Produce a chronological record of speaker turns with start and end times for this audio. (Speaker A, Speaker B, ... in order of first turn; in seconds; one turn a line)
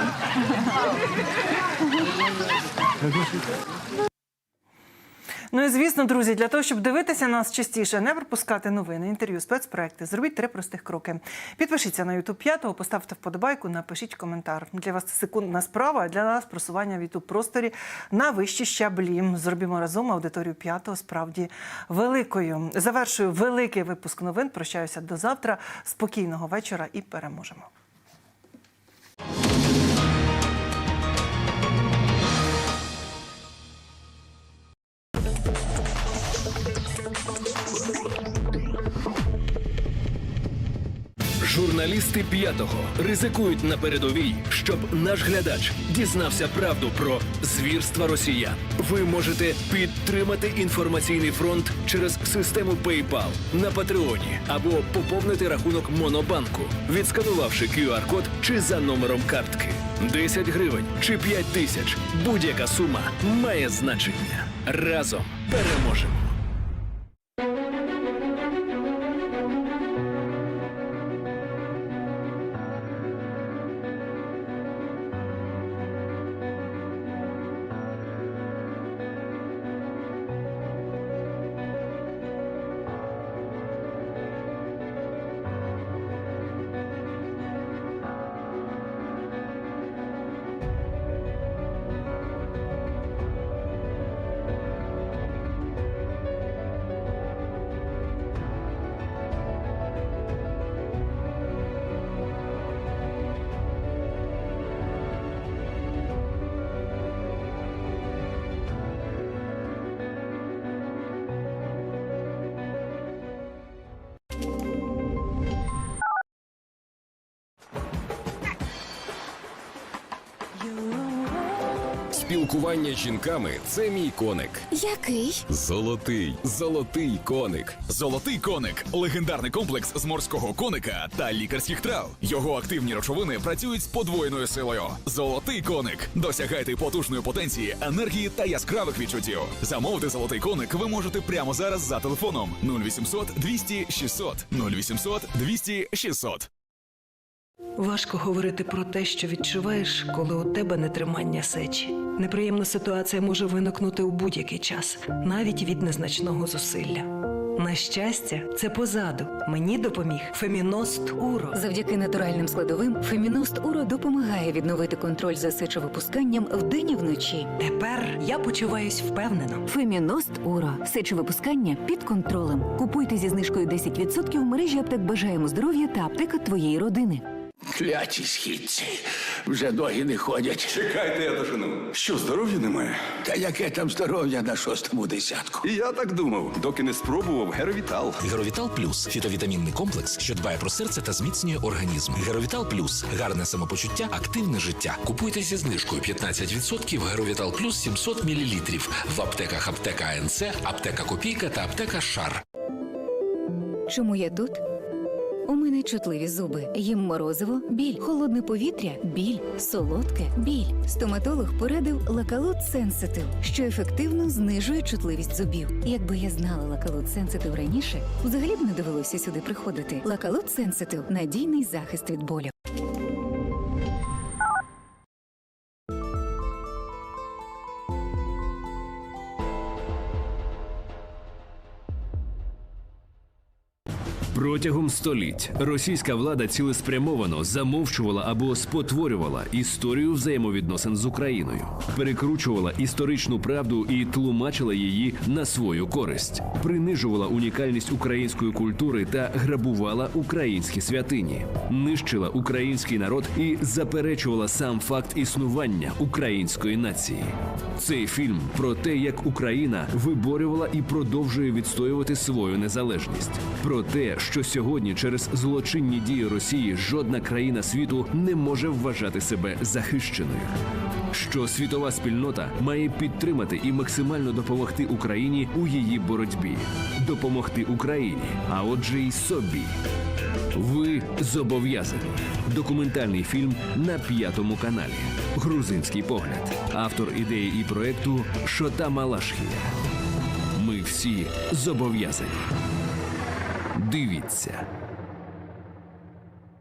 Speaker A: 5.5-27.7
Speaker B: 41.4-66.3
Speaker C: 122.1-124.6
Speaker D: 124.7-125.4
Speaker E: 125.6-126.5
Speaker C: 126.6-127.7
Speaker E: 127.8-146.5
Speaker F: 147.8-161.5
Speaker D: 161.5-167.5
Speaker F: 167.6-169.6
Speaker D: 169.7-177.2
Speaker G: 177.7-180.9
Speaker H: 180.9-183.0
Speaker G: 183.2-185.7
Speaker H: 185.6-188.2
Speaker I: 188.2-202.4
Speaker D: 203.9-204.6
Speaker D: 205.4-222.5
Speaker B: 234.3-270.6
Speaker B: 271.1-279.8
Speaker B: 280.5-289.8
Speaker B: 290.6-292.4
Speaker B: 293.8-294.7